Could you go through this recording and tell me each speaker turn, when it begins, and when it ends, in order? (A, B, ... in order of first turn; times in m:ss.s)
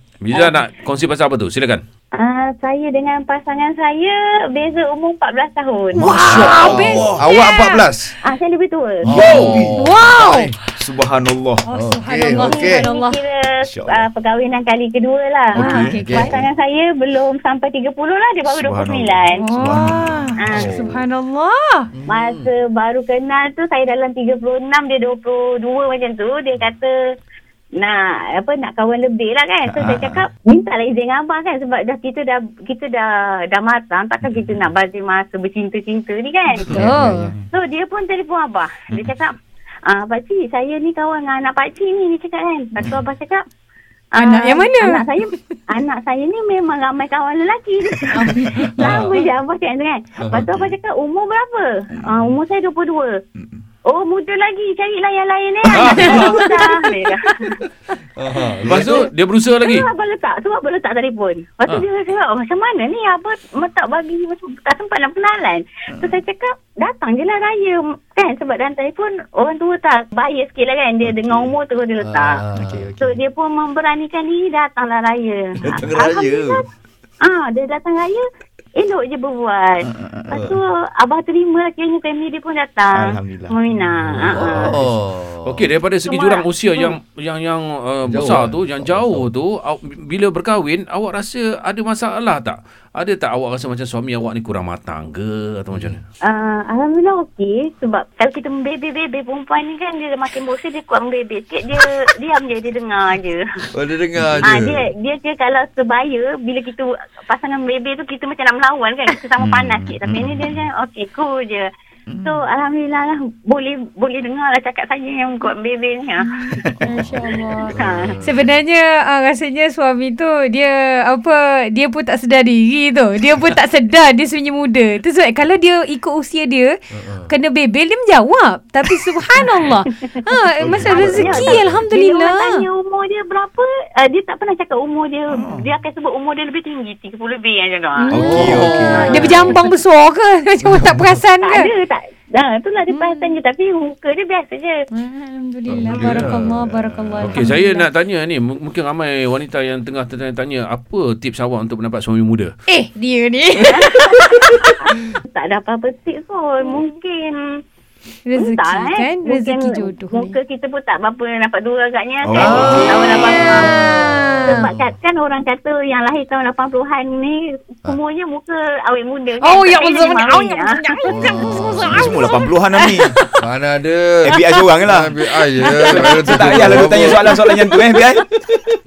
0:00.2-0:01.8 A
0:02.2-0:06.8 B
0:06.0-0:07.9 C
0:06.0-0:06.4 D
0:06.0-0:08.2 E
0:06.9-0:07.2 D
0:08.2-0:09.1 B
0:09.0-0:10.6 E
0:09.1-0:09.8 A
0:09.2-0:09.8 D
0:09.2-0:10.5 C
0:10.8-0:11.6 D
0:11.6-0:13.2 C
0:11.8-0:12.9 E
0:12.4-0:19.6 B
0:13.6-0:14.1 D
0:15.5-0:16.3 D
0:15.6-0:16.3 C
0:16.0-0:16.5 E
0:18.5-0:20.6 D
0:19.4-0:21.9 C
0:20.4-0:20.7 B
0:20.5-0:21.0 E
0:21.9-0:22.5 E
0:22.1-0:26.9 B
0:27.8-0:36.8 B
0:29.7-0:30.2 D
0:34.2-0:34.7 D
0:36.6-0:37.3 C
0:36.8-0:37.5 D
0:37.5-0:39.3 B
0:38.9-0:39.2 D
0:39.9-0:43.4 B
0:42.8-0:43.0 D
0:44.2-0:45.5 C
0:44.2-0:53.2 B
0:48.0-0:49.2 C
0:48.6-0:49.1 E
0:50.2-0:50.5 E
0:53.9-0:57.5 B
0:55.7-0:56.4 A
0:55.8-0:57.0 C
0:58.2-0:59.1 E
0:58.6-0:59.8 A
0:59.6-1:12.4 B
1:11.2-1:13.2 E
1:12.6-1:12.9 D
1:13.0-1:16.6 B
1:15.6-1:15.9 D
1:15.8-1:16.6 E
1:17.2-1:18.2 B
1:18.8-1:24.8 B
1:19.8-1:20.3 D
1:22.9-1:23.6 D
1:24.2-1:24.9 A
1:24.2-1:25.7 E
1:25.4-1:36.0 A
1:26.1-1:27.0 B
1:28.1-1:29.3 E
1:36.3-1:43.4 B
1:43.7-1:44.8 E
1:44.4-1:51.7 B
1:49.4-1:50.6 D
1:52.1-1:52.4 D
1:52.2-1:56.6 B
1:56.2-2:06.7 C
1:56.9-1:58.5 E
1:57.7-1:58.2 B
2:06.9-2:07.3 E
2:07.3-2:12.6 C
2:10.6-2:11.6 E
2:10.6-2:19.6 B
2:15.3-2:15.7 D
2:18.0-2:21.7 C
2:18.1-2:19.5 D
2:18.1-2:19.4 E
2:20.6-2:21.2 E
2:21.4-2:24.8 B
2:22.9-2:23.4 C
2:24.9-2:27.9 C
2:25.7-2:27.3 E
2:25.9-2:26.4 A
2:27.2-2:32.5 A
2:32.7-2:34.8 C
2:33.7-2:37.4 B
2:38.2-2:40.4 C
2:38.4-2:50.8 B
2:42.2-2:43.4 D
2:42.4-2:44.8 C
2:42.5-2:44.7 E
2:49.4-2:53.4 C
2:51.1-2:52.2 E
2:51.9-2:53.1 D
2:53.4-2:58.8 E
2:54.3-2:55.1 D
2:55.6-2:58.1 C
2:55.8-2:58.2 D